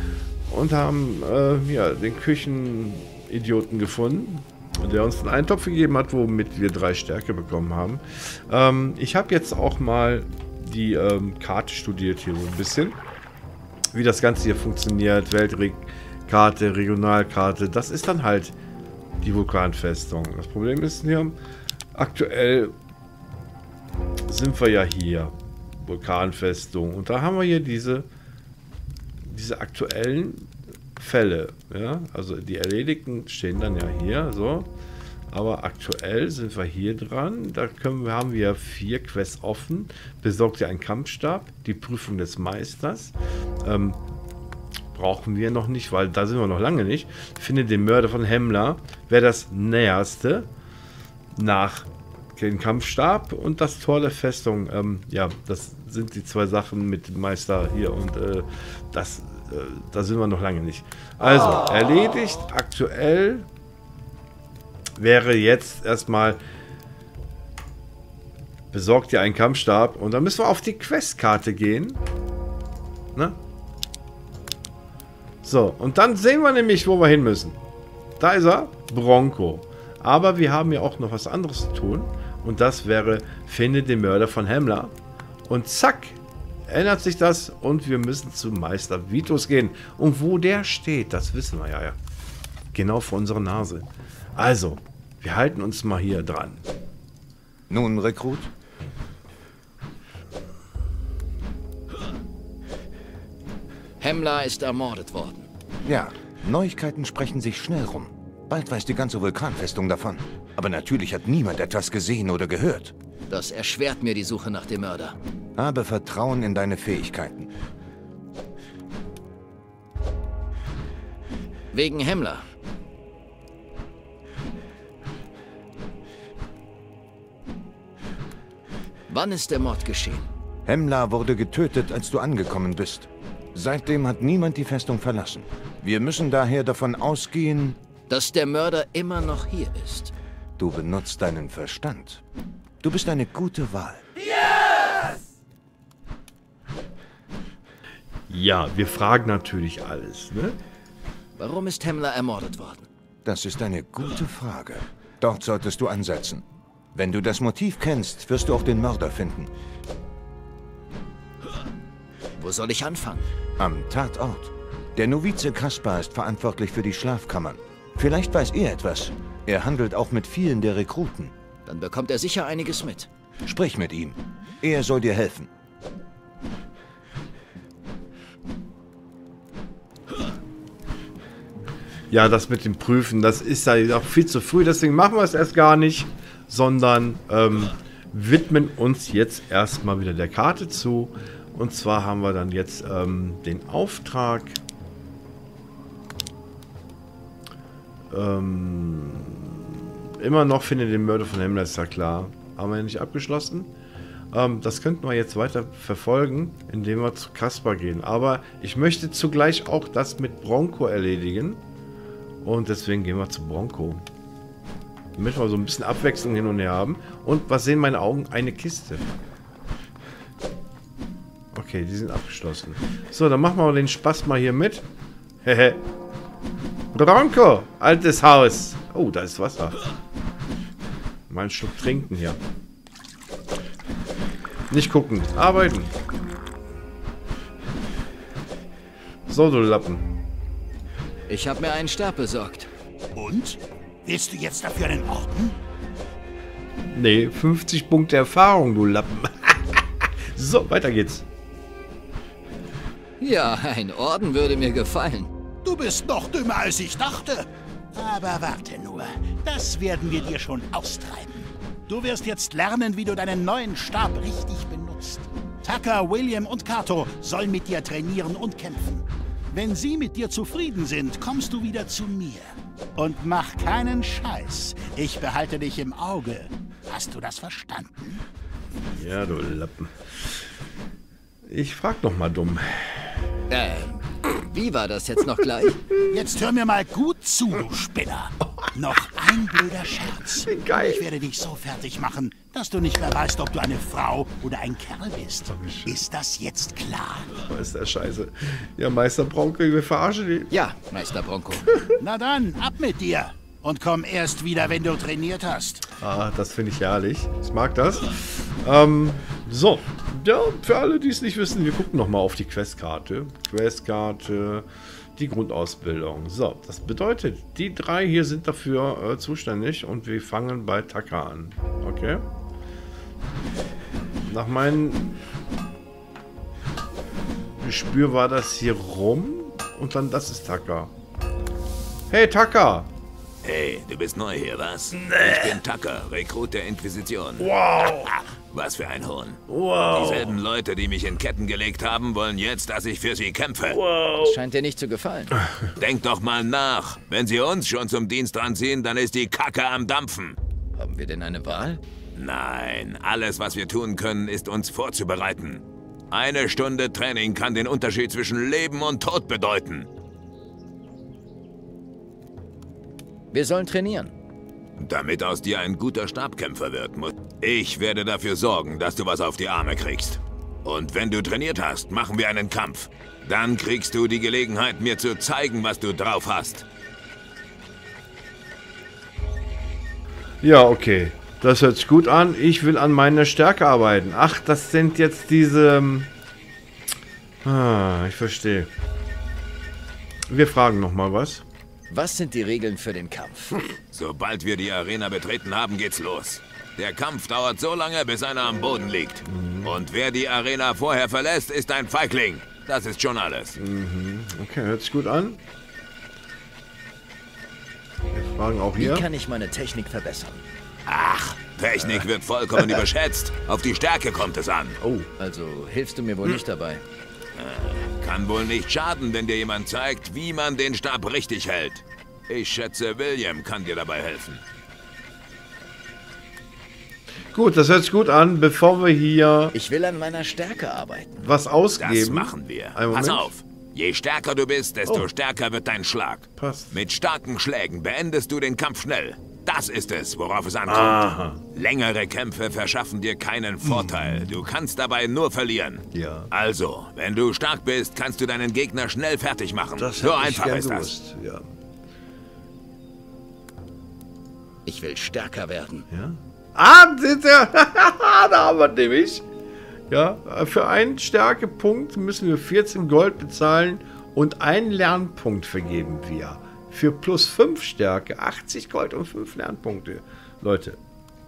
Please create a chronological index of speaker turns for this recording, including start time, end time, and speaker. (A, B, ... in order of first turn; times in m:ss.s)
0:00.5-0:13.0 A
0:13.9-0:18.6 A
0:19.2-0:21.4 A
0:21.9-0:22.7 A
0:24.3-0:28.1 A
0:29.2-0:34.7 A
0:35.3-0:44.0 A
0:44.9-0:50.5 A
0:51.3-1:03.5 A
1:05.0-1:06.4 A
1:08.7-1:12.0 A
1:15.4-1:17.6 A
1:18.2-1:24.9 A
1:25.4-1:32.0 A
1:32.7-1:36.7 A
1:37.7-1:38.5 B
1:44.0-1:45.5 C
1:45.8-1:52.9 B
1:53.3-1:55.2 C
1:55.6-1:57.5 B
2:01.7-2:02.5 C
2:09.1-2:10.3 C
2:10.6-2:17.8 B
2:18.1-2:20.1 C
2:20.6-2:22.2 B
2:22.8-2:24.0 B
2:28.3-2:30.6 A
2:31.4-2:32.9 C
2:33.2-2:39.5 B
2:42.4-2:43.3 C
2:43.6-2:51.3 B
2:51.6-2:53.1 C
2:53.4-2:55.5 B
3:02.1-3:14.6 A
3:18.1-3:23.7 A
3:24.3-3:31.6 A
3:32.4-3:34.0 A
3:35.2-3:39.1 A
3:41.5-3:44.8 A
3:45.4-3:45.8 A
3:46.9-3:49.8 A
3:51.3-3:52.4 A
3:54.7-3:55.9 A
3:59.3-4:00.1 A
4:01.3-4:02.7 C
4:03.1-4:05.5 D
4:06.9-4:11.3 A
4:13.2-4:15.3 C
4:15.6-4:32.4 D
4:33.0-4:38.2 D
4:38.9-4:40.1 A
4:41.4-4:43.3 A
4:43.5-4:45.8 C
4:46.1-4:57.3 D
4:50.4-4:51.0 A
4:55.5-4:56.0 A
4:57.4-5:00.5 A
5:00.5-5:01.7 C
5:02.0-5:05.8 D
5:06.0-5:22.2 A
5:24.2-5:25.2 A
5:27.6-5:30.9 A
5:32.1-5:32.9 A
5:33.4-5:37.5 E
5:34.9-5:35.6 A
5:37.4-5:38.1 A
5:38.5-5:43.8 E
5:39.5-5:40.4 A
5:43.7-5:44.4 A
5:44.2-5:45.4 C
5:45.8-5:50.4 E
5:50.8-5:51.8 C
5:52.2-5:59.9 E
6:03.3-6:04.1 C
6:04.8-6:16.6 E
6:20.4-6:26.1 A
6:27.4-6:28.7 A
6:30.3-6:31.4 A
6:31.9-6:33.6 C
6:33.9-6:43.6 E
6:39.2-6:39.8 A
6:43.5-6:45.4 A
6:48.1-6:49.1 A
6:48.8-6:50.4 C
6:50.9-6:54.8 E
6:54.8-6:55.1 A
6:55.2-6:56.8 C
6:57.3-7:04.4 E
7:07.3-7:09.5 A
7:09.5-7:11.2 C
7:11.2-7:13.3 A
7:11.8-7:30.9 E
7:14.8-7:15.1 A
7:16.4-7:16.8 A
7:20.6-7:21.4 A
7:23.6-7:24.4 A
7:25.9-7:26.3 A
7:29.7-7:31.5 A
7:34.6-7:35.8 C
7:35.9-7:39.2 A
7:39.9-7:50.8 A